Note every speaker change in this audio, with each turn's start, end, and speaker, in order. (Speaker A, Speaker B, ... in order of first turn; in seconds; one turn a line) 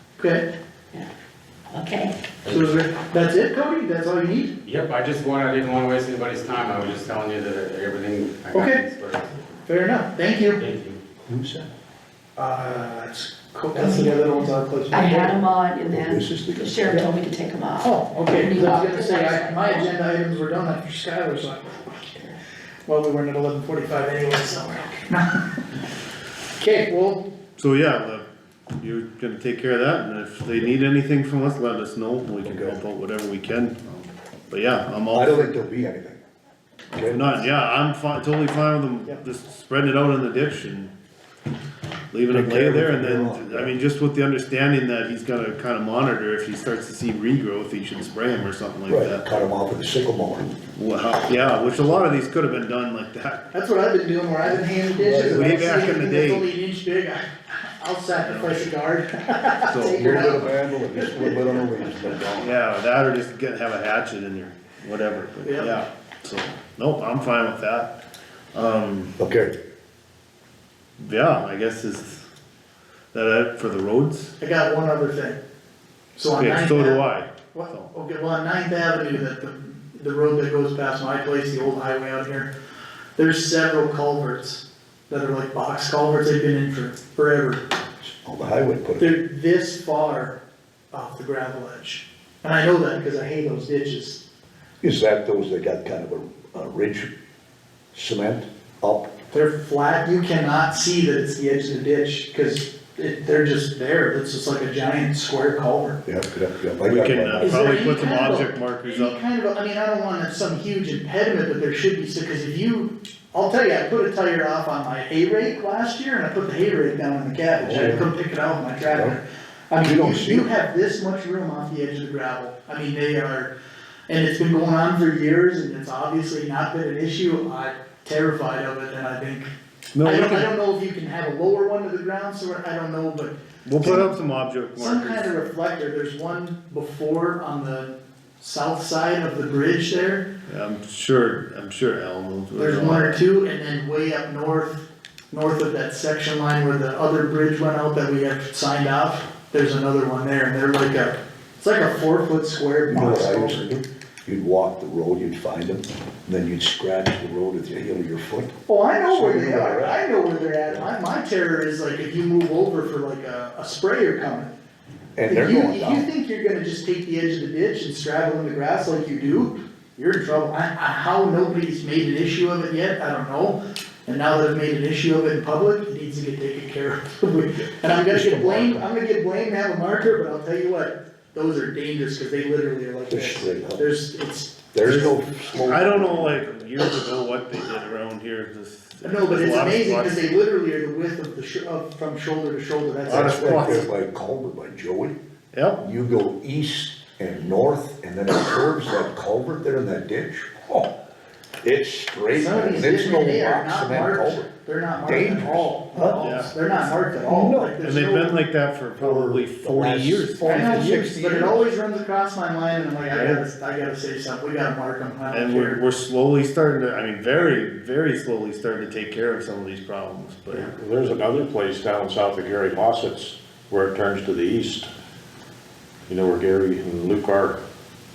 Speaker A: 0.2-0.5
Speaker B: 1.7-2.2
Speaker C: 2.4-2.7
Speaker A: 2.5-4.5
Speaker C: 4.6-9.4
Speaker A: 8.5-8.8
Speaker A: 9.7-10.6
Speaker C: 10.6-11.0
Speaker D: 11.3-11.7
Speaker A: 12.4-15.4
Speaker B: 13.8-14.2
Speaker B: 14.9-19.9
Speaker D: 15.9-16.9
Speaker A: 17.8-22.3
Speaker A: 22.9-25.3
Speaker A: 26.6-27.2
Speaker E: 27.6-28.3
Speaker E: 28.8-35.5
Speaker D: 32.4-32.8
Speaker D: 35.1-36.2
Speaker D: 36.9-37.4
Speaker E: 37.1-40.9
Speaker E: 42.1-49.3
Speaker D: 42.3-43.7
Speaker D: 48.9-50.6
Speaker E: 50.7-53.5
Speaker A: 53.5-62.2
Speaker D: 54.5-55.6
Speaker E: 55.3-56.5
Speaker E: 58.2-58.7
Speaker E: 59.7-60.0
Speaker D: 59.8-62.6
Speaker E: 62.4-68.0
Speaker A: 65.4-65.8
Speaker E: 68.5-69.2
Speaker D: 69.2-69.5
Speaker E: 71.0-72.3
Speaker E: 73.1-74.3
Speaker A: 74.4-75.4
Speaker A: 76.2-82.5
Speaker E: 76.4-77.9
Speaker A: 83.2-87.6
Speaker D: 88.0-89.2
Speaker A: 89.0-90.4
Speaker A: 90.9-94.2
Speaker D: 94.8-97.1
Speaker D: 97.9-99.1
Speaker A: 99.3-106.0
Speaker D: 106.1-107.8
Speaker E: 106.9-109.2
Speaker A: 107.4-123.5
Speaker D: 117.6-118.1
Speaker D: 118.9-119.2
Speaker D: 119.8-120.5
Speaker A: 124.1-129.5
Speaker E: 129.9-130.5
Speaker A: 130.0-134.1
Speaker E: 133.7-135.3
Speaker A: 134.8-140.3
Speaker E: 140.5-143.2
Speaker A: 142.6-153.7
Speaker D: 152.9-160.0
Speaker A: 158.7-164.5
Speaker D: 165.2-166.1
Speaker A: 165.3-184.6
Speaker D: 177.7-178.9
Speaker D: 183.1-183.9
Speaker D: 184.7-186.5
Speaker E: 184.8-190.3
Speaker A: 189.0-193.9
Speaker D: 193.1-195.2
Speaker E: 193.1-193.9
Speaker E: 195.5-195.8
Speaker D: 195.8-200.9
Speaker D: 201.6-204.5
Speaker A: 202.3-208.4
Speaker D: 205.1-206.2
Speaker E: 206.2-206.7
Speaker D: 207.2-207.8
Speaker E: 207.8-211.0
Speaker D: 209.0-211.7
Speaker A: 210.4-215.8
Speaker E: 213.1-213.4
Speaker E: 215.3-220.8
Speaker F: 220.5-224.9
Speaker F: 226.1-227.6